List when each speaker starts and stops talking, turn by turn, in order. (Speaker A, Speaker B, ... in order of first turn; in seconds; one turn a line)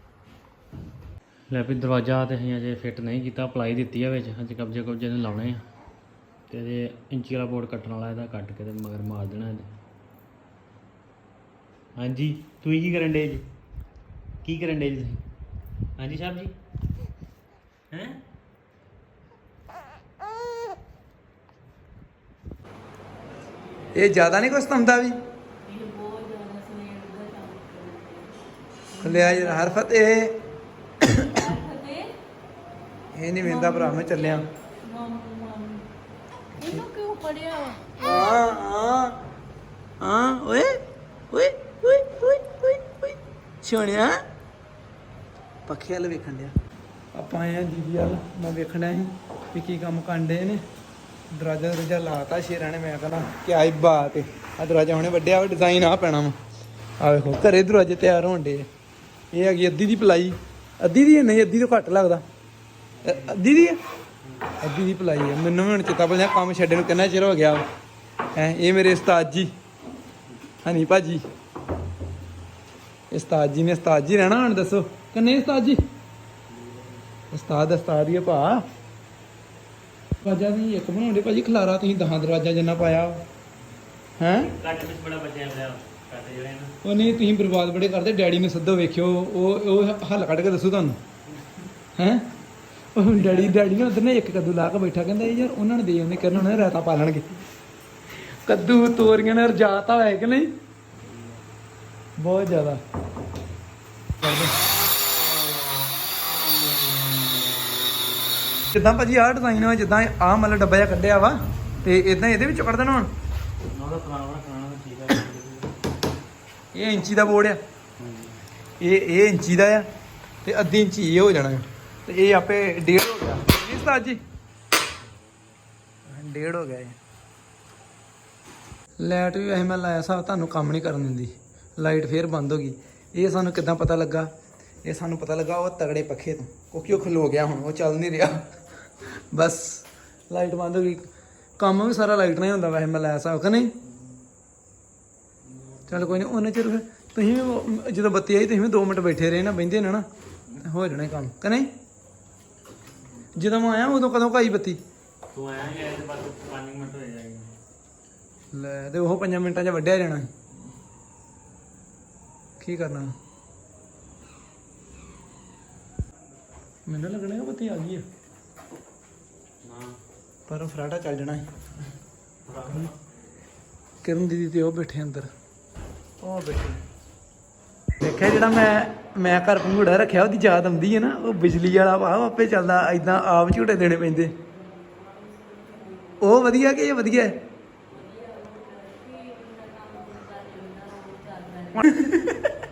Speaker A: 1.5-5.6
Speaker A: 6.5-9.7
Speaker A: 12.0-13.4
Speaker A: 14.4-15.2
Speaker A: 16.0-16.5
Speaker A: 17.9-18.2
Speaker B: 23.9-25.1
Speaker C: 25.6-28.3
Speaker C: 28.9-29.8
Speaker B: 29.0-30.4
Speaker B: 31.0-31.4
Speaker C: 31.1-32.1
Speaker B: 33.1-34.5
Speaker C: 33.4-35.8
Speaker C: 36.6-38.6
Speaker B: 38.0-39.2
Speaker B: 40.0-40.8
Speaker B: 41.3-44.2
Speaker B: 45.7-46.5
Speaker B: 47.1-50.6
Speaker B: 51.3-56.3
Speaker B: 57.0-58.6
Speaker B: 59.3-62.2
Speaker A: 62.9-63.4
Speaker B: 63.0-63.8
Speaker A: 64.2-64.5
Speaker B: 64.6-67.6
Speaker B: 68.3-69.5
Speaker B: 70.6-71.2
Speaker B: 73.1-75.8
Speaker A: 76.5-77.0
Speaker B: 77.3-78.6
Speaker B: 80.2-83.2
Speaker B: 84.2-84.5
Speaker A: 84.3-86.8
Speaker B: 86.8-91.0
Speaker B: 92.0-92.3
Speaker B: 93.0-97.3
Speaker A: 93.2-93.7
Speaker B: 98.1-100.5
Speaker A: 101.0-101.4
Speaker B: 102.2-102.8
Speaker B: 104.2-104.5
Speaker B: 108.7-113.1
Speaker A: 113.7-115.7
Speaker B: 116.7-117.6
Speaker A: 118.0-118.4
Speaker B: 118.8-119.8
Speaker B: 120.4-124.2
Speaker B: 126.1-127.0
Speaker B: 129.0-134.3
Speaker B: 134.8-141.1
Speaker B: 141.6-143.7
Speaker A: 145.5-146.2
Speaker B: 145.9-151.7
Speaker B: 153.4-154.8
Speaker A: 155.3-157.5
Speaker B: 158.5-160.3
Speaker B: 162.6-163.1
Speaker B: 166.9-168.0
Speaker A: 169.6-170.0
Speaker B: 170.5-171.4
Speaker A: 172.4-173.0
Speaker B: 174.0-175.3
Speaker B: 176.2-176.8
Speaker B: 178.0-184.3
Speaker C: 185.2-186.2
Speaker B: 186.2-187.4
Speaker C: 187.9-192.3
Speaker B: 191.8-192.5